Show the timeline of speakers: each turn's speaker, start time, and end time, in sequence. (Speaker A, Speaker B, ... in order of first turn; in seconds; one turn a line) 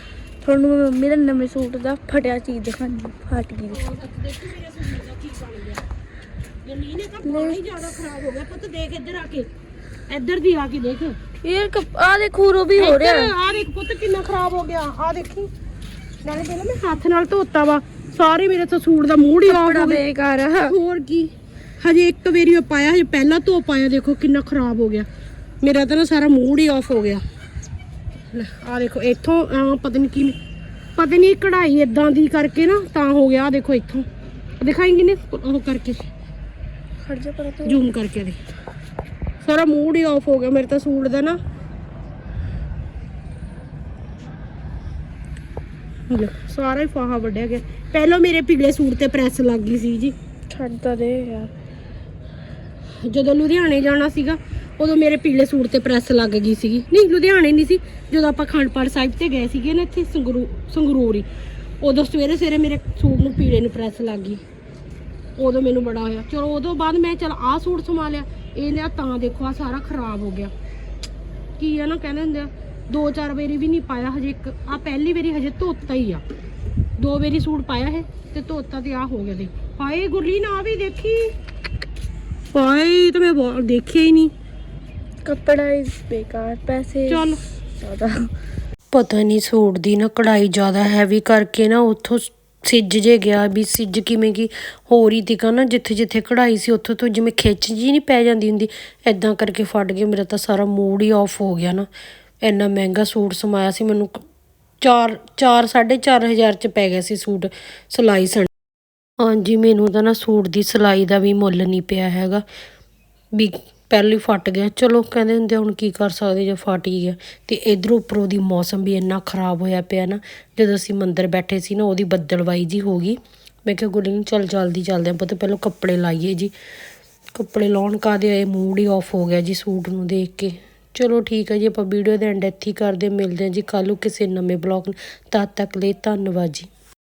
Speaker A: 0.4-3.8
Speaker B: 3.7-5.8
Speaker B: 6.6-9.5
Speaker A: 7.2-7.6
Speaker B: 10.1-11.2
Speaker A: 11.4-13.3
Speaker B: 12.8-15.5
Speaker B: 16.2-20.0
Speaker A: 19.4-20.8
Speaker B: 20.6-25.1
Speaker B: 25.6-27.2
Speaker B: 28.3-30.4
Speaker B: 30.9-34.1
Speaker B: 34.6-36.1
Speaker A: 37.0-37.8
Speaker B: 37.6-38.4
Speaker B: 39.4-41.4
Speaker B: 46.1-50.1
Speaker A: 50.5-51.5
Speaker B: 53.0-61.3
Speaker B: 61.8-64.4
Speaker B: 65.4-70.5
Speaker B: 71.6-76.2
Speaker B: 77.0-81.3
Speaker B: 82.5-84.3
Speaker A: 85.2-88.1
Speaker B: 87.1-87.4
Speaker C: 88.9-101.9
Speaker C: 102.4-104.2
Speaker C: 104.8-108.5
Speaker C: 109.2-112.4
Speaker C: 113.3-126.5
Speaker C: 127.3-136.7